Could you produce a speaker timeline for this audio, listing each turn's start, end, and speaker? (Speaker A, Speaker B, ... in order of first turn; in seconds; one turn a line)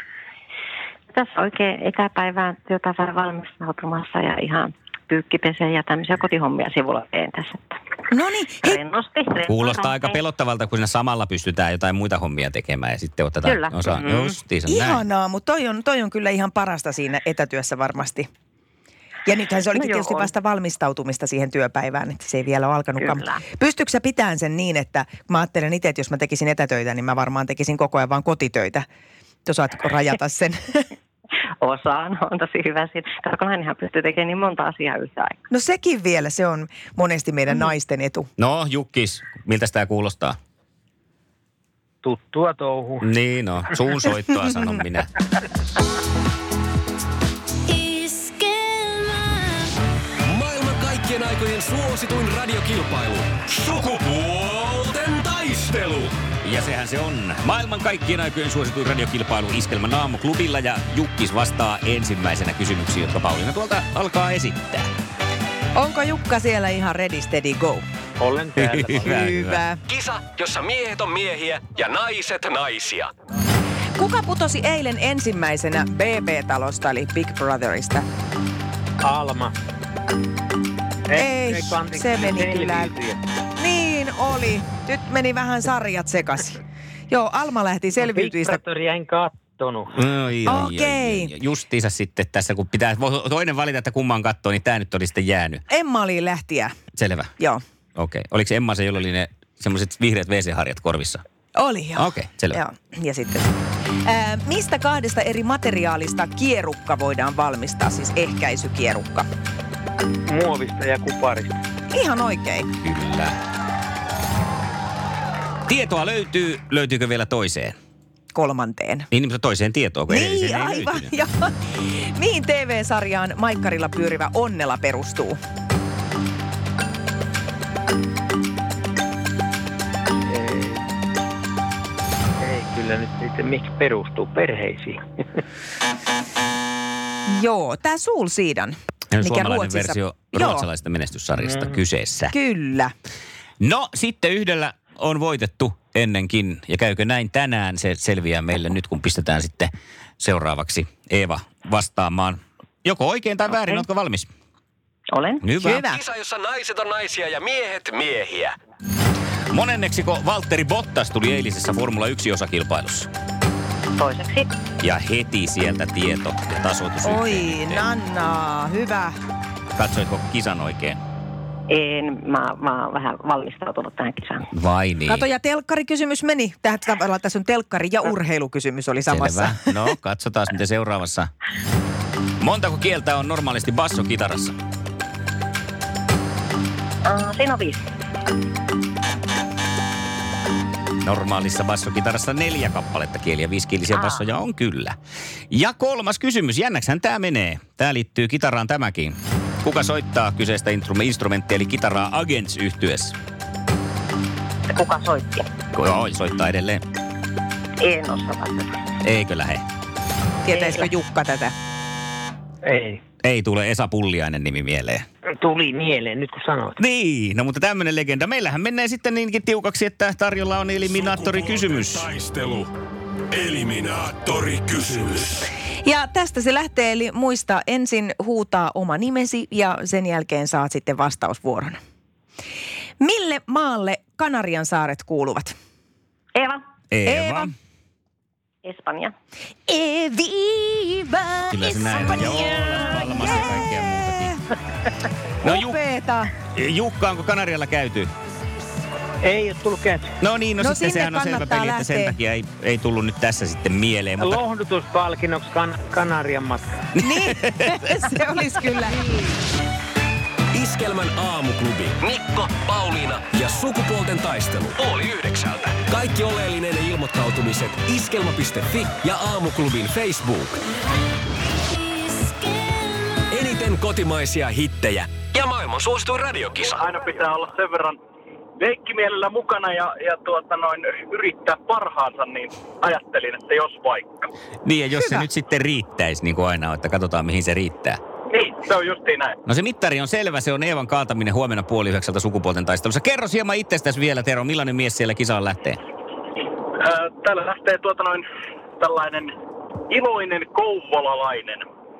Speaker A: 1.1-7.8
Speaker B: 8.1-8.8
Speaker A: 8.6-10.2
Speaker C: 9.5-15.0
Speaker A: 13.5-14.3
Speaker B: 14.7-18.3
Speaker B: 19.3-28.8
Speaker A: 19.8-20.3
Speaker A: 23.0-23.4
Speaker B: 29.5-30.9
Speaker A: 31.6-35.4
Speaker B: 35.5-38.3
Speaker C: 38.4-40.4
Speaker D: 42.0-43.0
Speaker C: 43.0-45.1
Speaker A: 48.2-48.9
Speaker E: 50.2-56.1
Speaker C: 56.4-64.9
Speaker B: 65.8-67.8
Speaker D: 68.2-69.3
Speaker C: 68.6-69.6
Speaker B: 69.1-69.8
Speaker E: 69.9-73.1
Speaker B: 74.0-78.0
Speaker D: 79.0-79.5
Speaker D: 81.1-83.2
Speaker B: 81.2-82.9
Speaker B: 83.6-88.6
Speaker D: 88.0-90.0
Speaker C: 90.0-95.6
Speaker B: 90.5-91.3
Speaker B: 95.7-96.7
Speaker C: 97.0-97.3
Speaker C: 98.0-101.2
Speaker B: 101.5-103.5
Speaker C: 102.0-102.6
Speaker B: 104.0-109.3
Speaker D: 110.3-111.6
Speaker B: 111.9-112.7
Speaker C: 112.8-113.3
Speaker C: 115.7-117.8
Speaker B: 118.3-119.1
Speaker C: 119.1-121.1
Speaker B: 120.1-125.4
Speaker D: 130.3-130.8
Speaker D: 132.4-135.0
Speaker B: 137.3-140.7
Speaker C: 139.1-142.3
Speaker B: 142.3-142.9
Speaker C: 143.6-154.3
Speaker A: 155.1-155.5
Speaker C: 155.4-155.8
Speaker B: 155.6-156.0
Speaker E: 155.9-158.6
Speaker C: 159.5-163.1
Speaker A: 164.0-164.5
Speaker C: 164.8-167.9
Speaker B: 167.0-169.1
Speaker C: 169.8-171.0
Speaker A: 171.7-174.5
Speaker C: 174.5-175.2
Speaker B: 175.1-179.7
Speaker C: 179.1-181.3
Speaker C: 182.4-184.6
Speaker A: 187.1-187.9
Speaker C: 191.0-195.0
Speaker A: 193.9-194.2
Speaker C: 195.5-203.2
Speaker A: 204.7-205.5
Speaker C: 205.7-206.8
Speaker A: 207.8-208.7
Speaker C: 209.0-209.6
Speaker B: 210.4-211.5
Speaker A: 210.5-210.9
Speaker D: 212.6-213.0
Speaker C: 213.2-215.1
Speaker D: 215.4-216.8
Speaker C: 216.8-222.1
Speaker E: 220.8-222.7
Speaker E: 223.3-225.5
Speaker B: 225.8-231.8
Speaker B: 233.0-235.5
Speaker A: 236.3-236.6
Speaker C: 236.9-237.5
Speaker B: 237.1-237.5
Speaker A: 238.7-239.2
Speaker B: 239.7-244.3
Speaker C: 241.5-244.4
Speaker A: 241.7-243.0
Speaker C: 245.4-245.8
Speaker B: 245.4-246.3
Speaker C: 246.5-248.1
Speaker D: 249.2-250.1
Speaker C: 250.2-254.4
Speaker B: 250.6-252.2
Speaker D: 254.2-256.7
Speaker C: 257.0-258.0
Speaker B: 257.0-259.1
Speaker E: 260.5-270.6
Speaker E: 273.3-276.8
Speaker F: 276.7-278.0
Speaker F: 278.6-284.1
Speaker C: 284.6-288.0
Speaker F: 288.3-289.4
Speaker C: 289.5-295.8
Speaker F: 296.8-298.2
Speaker F: 298.8-299.3
Speaker F: 299.9-301.7